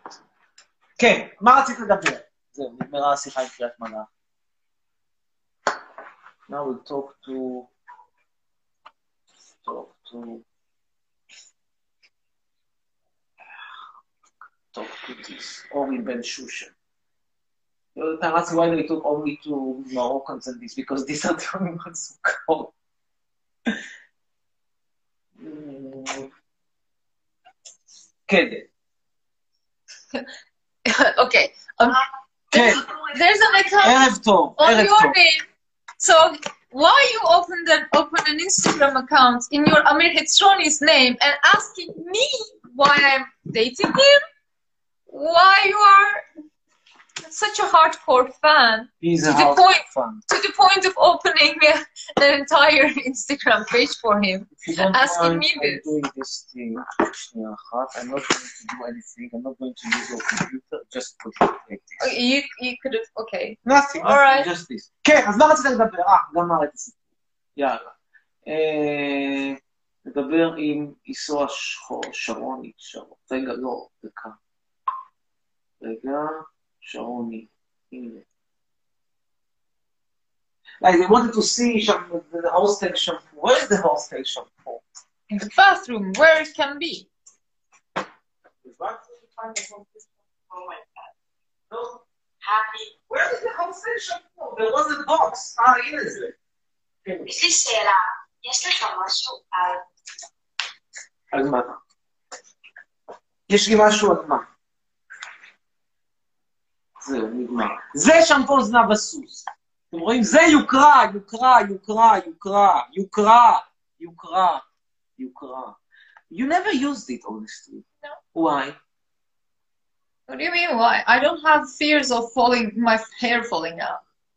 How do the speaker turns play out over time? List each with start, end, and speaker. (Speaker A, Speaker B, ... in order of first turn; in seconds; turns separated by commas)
Speaker A: 1.0-4.1, Speaker A: 6.5-7.7, Speaker A: 9.6-10.4, Speaker A: 14.7-16.7, Speaker A: 17.9-22.7, Speaker A: 25.4-26.3, Speaker A: 28.3-28.7, Speaker B: 30.9-32.0, Speaker A: 32.5-32.8, Speaker B: 32.5-35.4, Speaker A: 33.8-35.1, Speaker B: 36.0-44.2, Speaker B: 45.1-46.2, Speaker B: 47.2-55.9, Speaker A: 49.0-50.2, Speaker A: 54.6-62.1, Speaker B: 62.0-64.5, Speaker A: 63.6-67.0, Speaker A: 67.5-67.9, Speaker A: 68.5-74.3, Speaker A: 75.8-78.2, Speaker A: 80.8-84.8, Speaker B: 85.3-87.1, Speaker A: 88.6-89.8, Speaker A: 91.7-92.0, Speaker C: 92.4-92.7, Speaker A: 93.1-96.3, Speaker C: 97.2-99.8, Speaker A: 101.3-101.8, Speaker A: 103.5-104.5, Speaker A: 107.0-114.6, Speaker A: 115.2-115.8, Speaker A: 116.3-118.8, Speaker B: 120.3-124.0